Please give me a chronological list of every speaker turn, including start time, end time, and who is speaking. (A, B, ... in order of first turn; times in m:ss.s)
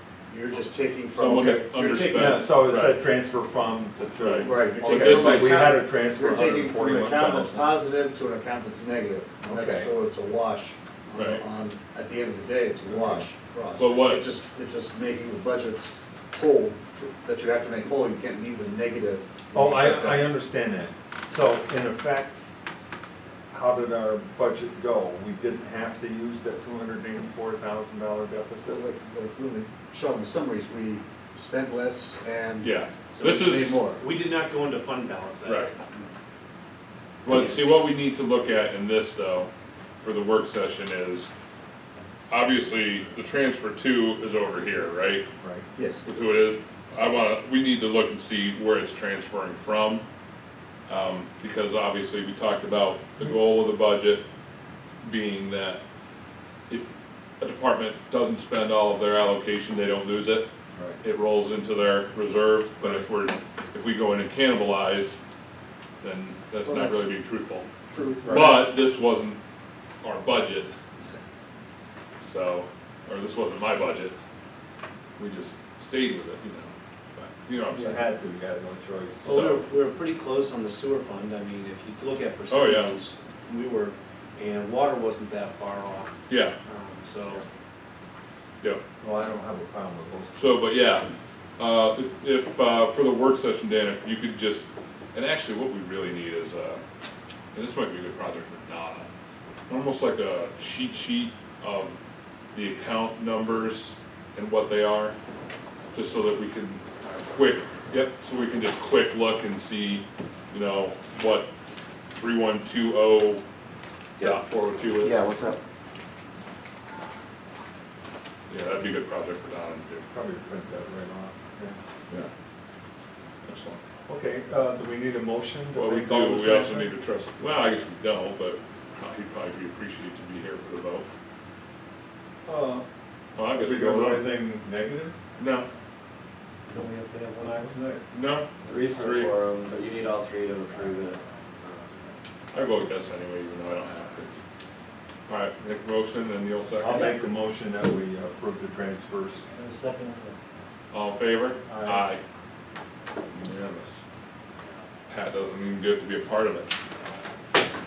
0:00.3-0:02.4 A
0:01.1-0:03.0 B
0:01.3-0:07.6 C
0:04.2-0:05.8 B
0:04.4-0:20.3 A
0:09.5-0:09.9 C
0:11.2-0:11.4 B
0:12.9-0:13.3 C
0:13.8-0:14.3 B
0:19.5-0:22.4 C
0:23.5-0:28.8 C
0:28.7-0:34.0 A
0:32.6-0:33.8 B
0:33.9-0:35.7 D
0:35.5-0:35.7 B
0:37.2-0:39.5 B
0:37.3-0:37.6 D
0:40.0-0:41.3 B
0:42.3-0:45.3 B
0:45.4-0:45.7 C
0:45.8-0:46.0 A
0:46.0-0:50.0 B
0:50.9-0:54.2 B
0:55.0-0:55.8 B
0:56.7-1:00.5 B
1:00.7-1:01.0 C
1:01.0-1:05.2 B
1:02.8-1:03.1 C
1:06.0-1:07.7 B
1:06.6-1:07.1 A
1:07.9-1:08.5 A
1:08.2-1:08.6 C
1:08.3-1:09.4 B
1:10.0-1:10.7 B
1:12.2-1:14.2 B
1:15.2-1:18.0 B
1:17.7-1:19.4 C
1:19.2-1:26.1 D
1:19.3-1:19.6 B
1:22.5-1:23.0 B
1:26.3-1:26.6 B
1:26.7-1:27.4 D
1:29.0-1:30.4 C
1:30.4-1:36.8 B
1:37.5-1:39.1 B
1:39.7-1:42.0 B
1:42.5-1:45.2 B
1:45.9-1:51.5 B
1:52.2-1:53.4 B
1:54.2-1:55.3 B
1:58.5-2:00.1 B
2:00.1-2:01.8 C
2:03.4-2:03.8 B
2:04.1-2:06.9 C
2:05.7-2:11.1 B
2:12.4-2:12.9 C
2:13.4-2:14.3 B
2:13.5-2:15.2 C
2:15.4-2:15.7 B
2:16.7-2:18.2 E
2:18.1-2:19.3 B
2:18.7-2:18.9 E
2:18.7-2:21.2 F
2:20.7-2:22.2 E
2:22.5-2:24.3 B
2:25.3-2:27.1 B
2:26.8-2:29.4 C
2:29.4-2:30.4 E
2:30.9-2:32.2 B
2:31.7-2:32.1 C
2:33.2-2:34.0 B
2:34.6-2:34.9 E
2:35.1-2:36.7 B
2:37.0-2:37.7 E